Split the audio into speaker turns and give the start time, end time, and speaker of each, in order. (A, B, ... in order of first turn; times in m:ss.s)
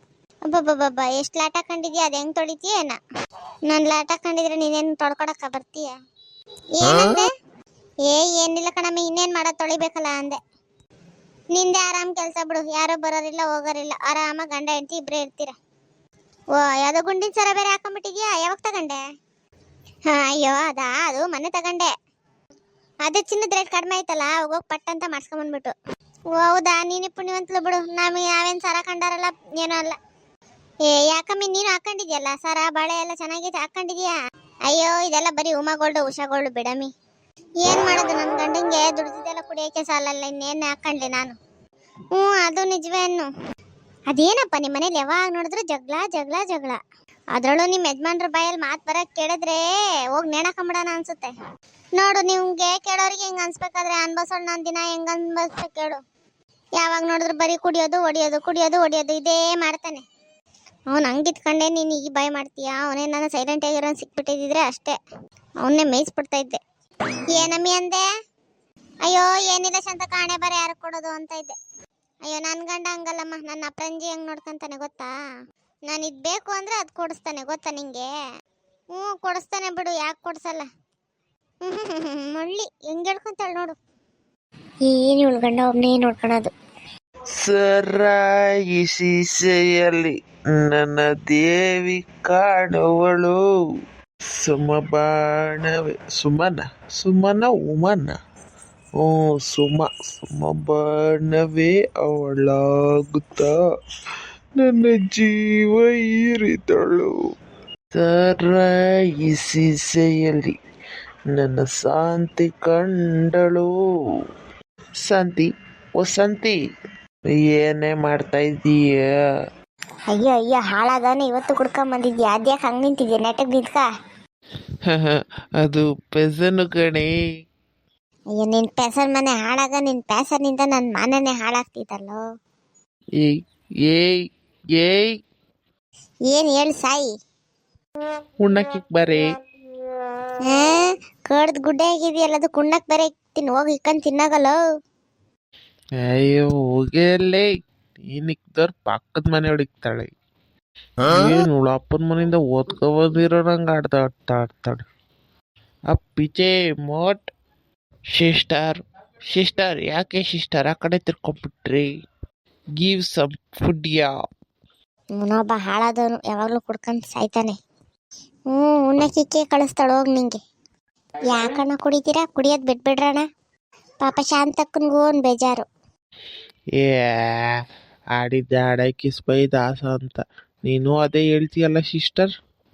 0:00.4-0:03.0 A
0:03.7-0:05.9 A
0:06.8-0:07.3 A
0:08.0-0:10.4 A
0:11.5-0:15.5 A
0:16.5-0:19.0 A
0:20.1-0:21.9 A
0:23.0-0:25.7 A
0:26.3-0:30.0 A
0:30.8-0:34.1 A
0:34.7-0:36.9 A
0:37.6-0:41.4 A
0:42.1-0:43.3 A
0:44.1-0:46.8 A
0:47.3-0:49.6 A
0:50.1-0:51.3 A
0:52.0-0:56.0 A
0:56.8-1:00.0 A
1:00.9-1:05.0 A
1:05.6-1:06.6 A
1:07.3-1:08.0 A
1:09.0-1:11.6 A
1:12.2-1:15.1 A
1:15.9-1:18.1 A
1:18.9-1:20.7 A
1:21.6-1:23.8 A
1:24.8-1:26.5 A
1:27.3-1:33.4 B
1:34.3-1:38.2 B
1:39.0-1:43.6 B
1:44.6-1:47.2 B
1:47.9-1:50.5 B
1:51.3-1:53.7 B
1:55.0-1:56.6 B
1:57.4-1:59.0 B
2:00.1-2:03.8 A
2:04.8-2:07.1 B
2:08.4-2:12.2 A
2:13.2-2:14.2 B
2:14.8-2:15.1 B
2:16.3-2:17.1 A
2:18.4-2:19.2 B
2:20.5-2:24.6 A
2:26.0-2:27.5 B
2:28.0-2:30.1 B
2:31.1-2:34.8 B
2:35.9-2:37.3 B
2:38.1-2:38.8 B
2:39.3-2:41.9 B
2:42.8-2:44.1 B
2:45.2-2:47.6 A
2:48.5-2:50.4 A
2:51.2-2:53.2 A
2:54.0-2:55.6 A
2:56.8-2:57.5 B
2:58.2-3:02.3 B